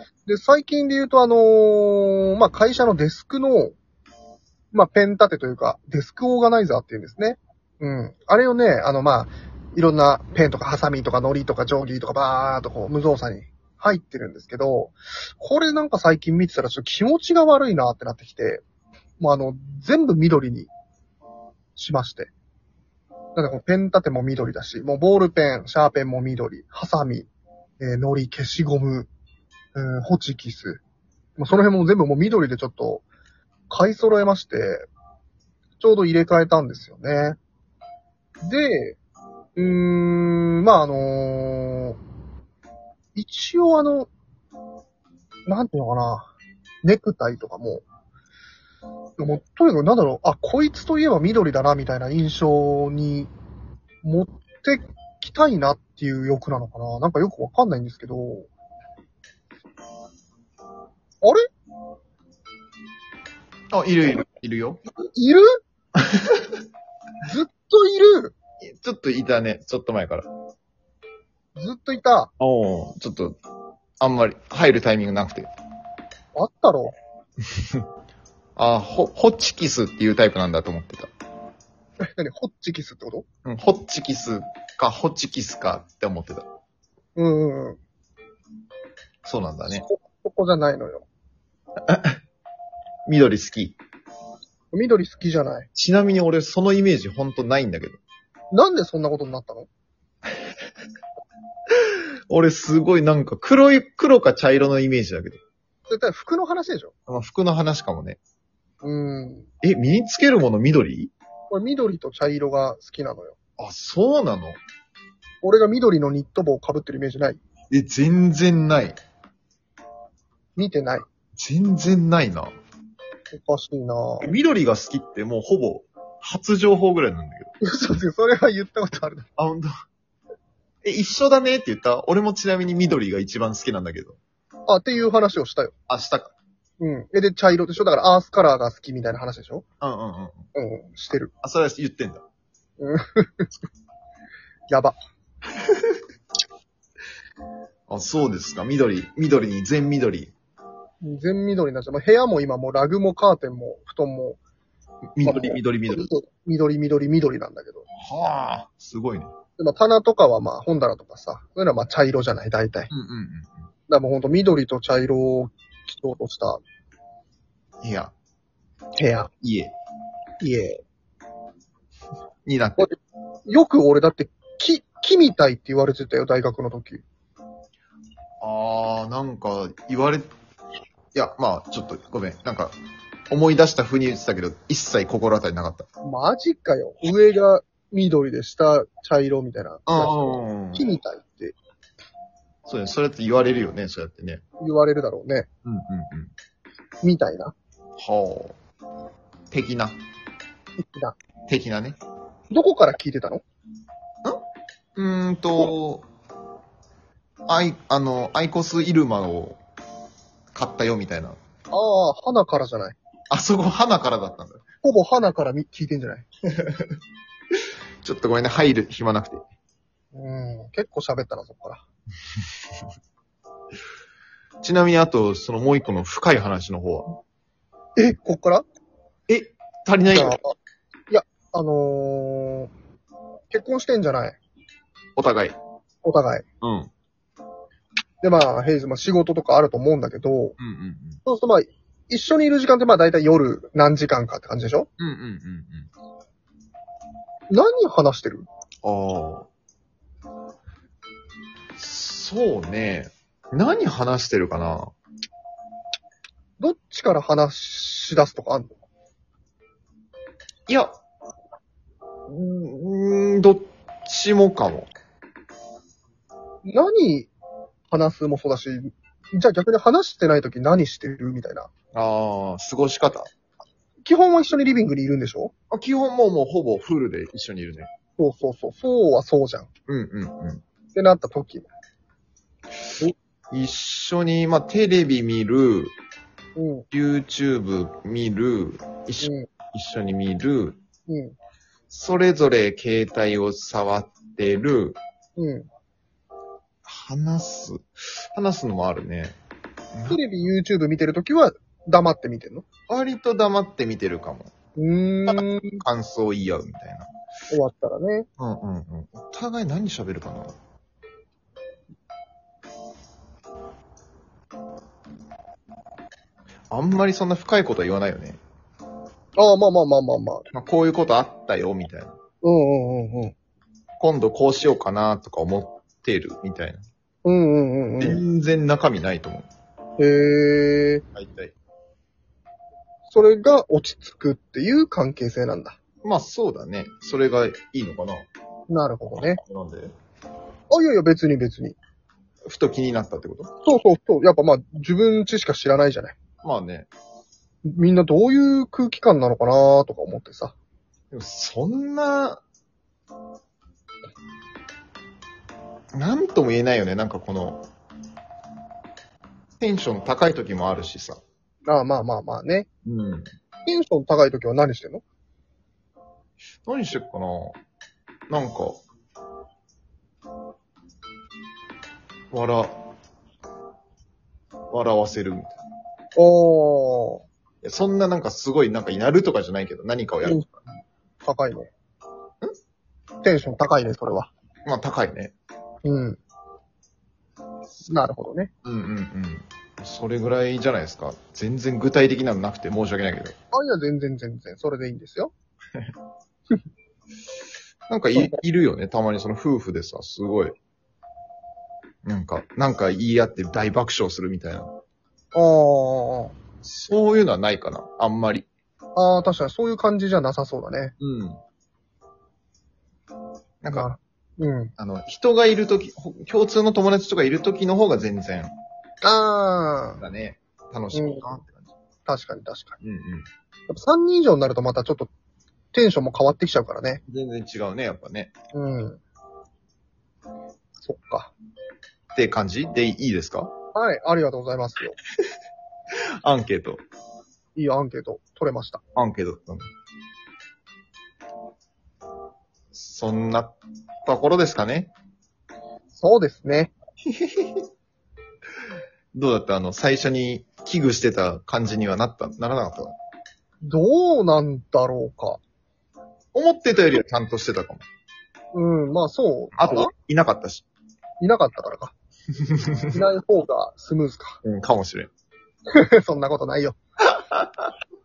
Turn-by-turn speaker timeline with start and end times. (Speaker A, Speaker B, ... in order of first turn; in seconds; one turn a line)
Speaker A: 0.2-3.8
Speaker A: 4.7-18.6
Speaker A: 19.2-20.7
Speaker A: 21.8-22.3
Speaker A: 23.3-27.3
Speaker A: 27.8-29.1
Speaker A: 29.7-30.8
Speaker A: 31.4-33.0
Speaker A: 33.7-34.9
Speaker A: 35.8-37.4
Speaker A: 38.4-39.0
Speaker A: 39.5-42.0
Speaker A: 43.1-44.1
Speaker A: 45.5-46.3
Speaker A: 46.8-47.8
Speaker A: 49.2-53.3
Speaker A: 54.0-58.5
Speaker B: 63.7-64.8
Speaker A: 65.0-65.5
Speaker A: 67.3-68.3
Speaker B: 68.6-70.3
Speaker A: 71.5-72.3
Speaker B: 72.4-73.3
Speaker B: 74.0-75.5
Speaker A: 76.3-76.9
Speaker B: 78.5-81.1
Speaker A: 82.0-83.2
Speaker B: 83.4-86.5
Speaker A: 87.2-87.8
Speaker B: 89.2-89.8
Speaker A: 89.7-91.0
Speaker B: 91.9-92.2
Speaker B: 93.1-93.8
Speaker A: 94.7-95.7
Speaker B: 95.7-98.0
Speaker A: 98.5-99.7
Speaker B: 102.3-105.4
Speaker A: 105.9-106.9
Speaker B: 107.1-108.2
Speaker A: 108.8-109.5
Speaker B: 109.6-111.1
Speaker A: 111.5-113.3
Speaker B: 113.6-114.6
Speaker A: 115.4-117.4
Speaker B: 117.7-119.0
Speaker A: 120.5-121.0
Speaker B: 121.4-122.5
Speaker A: 123.3-124.3
Speaker B: 124.2-127.5
Speaker A: 127.6-129.3
Speaker B: 129.4-129.7
Speaker B: 130.8-134.2
Speaker A: 134.7-135.7
Speaker B: 135.9-136.3
Speaker A: 136.8-139.6
Speaker B: 139.8-140.4
Speaker A: 140.5-141.3
Speaker B: 141.4-142.2
Speaker A: 142.8-143.5
Speaker A: 144.7-144.9
Speaker B: 147.9-150.3
Speaker A: 151.0-154.4
Speaker B: 155.1-156.1
Speaker A: 155.2-157.9
Speaker B: 158.0-159.3
Speaker A: 159.6-162.9
Speaker B: 162.9-163.5
Speaker A: 163.9-166.6
Speaker B: 167.8-168.1
Speaker A: 169.0-169.3
Speaker B: 169.4-169.7
Speaker A: 170.4-170.8
Speaker B: 172.4-172.9
Speaker A: 173.5-177.0
Speaker B: 178.4-180.3
Speaker B: 181.1-182.7
Speaker B: 183.3-185.9
Speaker A: 186.0-191.6
Speaker B: 189.9-190.9
Speaker B: 192.7-194.4
Speaker A: 194.6-195.5
Speaker B: 195.6-196.3
Speaker A: 197.0-197.5
Speaker B: 198.0-198.6
Speaker B: 199.5-200.0
Speaker A: 200.8-201.2
Speaker B: 201.5-202.0
Speaker A: 202.5-203.4
Speaker B: 204.9-206.0
Speaker B: 207.5-209.6
Speaker B: 210.5-211.4
Speaker A: 211.7-212.9
Speaker B: 213.3-214.6
Speaker A: 214.8-216.2
Speaker B: 218.0-219.4
Speaker A: 220.1-221.8
Speaker B: 224.6-227.2
Speaker A: 228.0-228.6
Speaker B: 229.3-230.3
Speaker A: 230.1-230.4
Speaker A: 231.1-232.7
Speaker A: 233.5-234.4
Speaker B: 235.2-235.6
Speaker A: 236.0-236.4
Speaker B: 236.6-236.9
Speaker A: 238.2-240.6
Speaker B: 240.6-241.2
Speaker A: 241.2-244.9
Speaker B: 245.0-245.9
Speaker A: 247.5-248.5
Speaker B: 248.8-249.5
Speaker B: 251.8-254.9
Speaker A: 256.6-258.7
Speaker B: 260.7-260.9
Speaker B: 262.3-264.9
Speaker A: 266.6-267.3
Speaker A: 267.9-271.7
Speaker B: 271.9-273.3
Speaker A: 274.0-275.5
Speaker B: 275.7-277.9
Speaker A: 278.2-279.7
Speaker B: 279.9-280.6
Speaker A: 280.9-281.7
Speaker B: 283.5-285.9
Speaker A: 286.6-286.9
Speaker B: 286.9-290.8
Speaker A: 289.2-289.5
Speaker A: 291.1-291.3
Speaker B: 291.9-295.0
Speaker A: 295.4-295.7
Speaker B: 296.9-299.4
Speaker B: 299.9-300.2
Speaker A: 300.1-302.6
Speaker B: 302.9-304.5
Speaker A: 304.8-305.8
Speaker B: 305.3-307.1
Speaker A: 307.5-308.3
Speaker B: 308.4-310.5
Speaker B: 316.7-318.4
Speaker A: 319.4-320.4
Speaker B: 320.5-322.1
Speaker A: 322.4-323.3
Speaker B: 324.0-326.8
Speaker A: 327.2-328.2
Speaker B: 328.0-329.5
Speaker A: 330.0-331.0
Speaker B: 331.1-331.5
Speaker A: 333.1-335.8
Speaker B: 336.0-338.3
Speaker A: 338.7-339.4
Speaker B: 339.2-339.9
Speaker A: 340.7-341.8
Speaker B: 342.5-343.5
Speaker A: 343.6-346.1
Speaker B: 346.4-346.9
Speaker A: 347.7-350.5
Speaker B: 351.1-352.4
Speaker B: 355.9-357.6
Speaker B: 359.6-361.2
Speaker A: 361.6-362.7
Speaker B: 362.9-363.2
Speaker A: 363.6-365.0
Speaker B: 366.6-367.6
Speaker B: 368.3-368.8
Speaker B: 372.3-372.8
Speaker B: 374.7-375.6
Speaker A: 376.1-377.2
Speaker B: 377.6-380.4
Speaker A: 380.2-380.5
Speaker A: 381.2-381.7
Speaker A: 383.2-384.3
Speaker B: 384.6-385.3
Speaker A: 385.8-386.2
Speaker A: 387.9-388.5
Speaker B: 388.6-393.4
Speaker A: 393.5-395.3
Speaker B: 397.9-400.6
Speaker B: 402.0-404.7
Speaker A: 405.3-406.4
Speaker B: 406.6-408.5
Speaker A: 408.9-410.9
Speaker B: 411.0-411.4
Speaker B: 413.6-413.9
Speaker A: 413.7-414.7
Speaker B: 414.8-418.5
Speaker A: 419.0-420.0
Speaker B: 420.0-421.7
Speaker A: 420.9-421.3
Speaker A: 422.1-422.8
Speaker B: 422.8-423.3
Speaker A: 423.7-425.1
Speaker A: 425.7-427.0
Speaker B: 427.1-428.3
Speaker A: 428.5-429.0
Speaker A: 430.8-431.3
Speaker B: 432.1-433.5
Speaker A: 433.7-434.9
Speaker B: 436.2-436.8
Speaker A: 437.5-438.8
Speaker B: 438.9-439.7
Speaker B: 442.7-444.9
Speaker A: 445.9-446.7
Speaker B: 447.1-447.6
Speaker B: 449.1-452.9
Speaker A: 453.6-455.4
Speaker B: 456.3-457.8
Speaker A: 458.5-459.9
Speaker B: 459.6-460.7
Speaker A: 461.2-461.9
Speaker B: 462.6-462.9
Speaker A: 462.9-464.4
Speaker B: 464.4-465.1
Speaker A: 465.7-466.8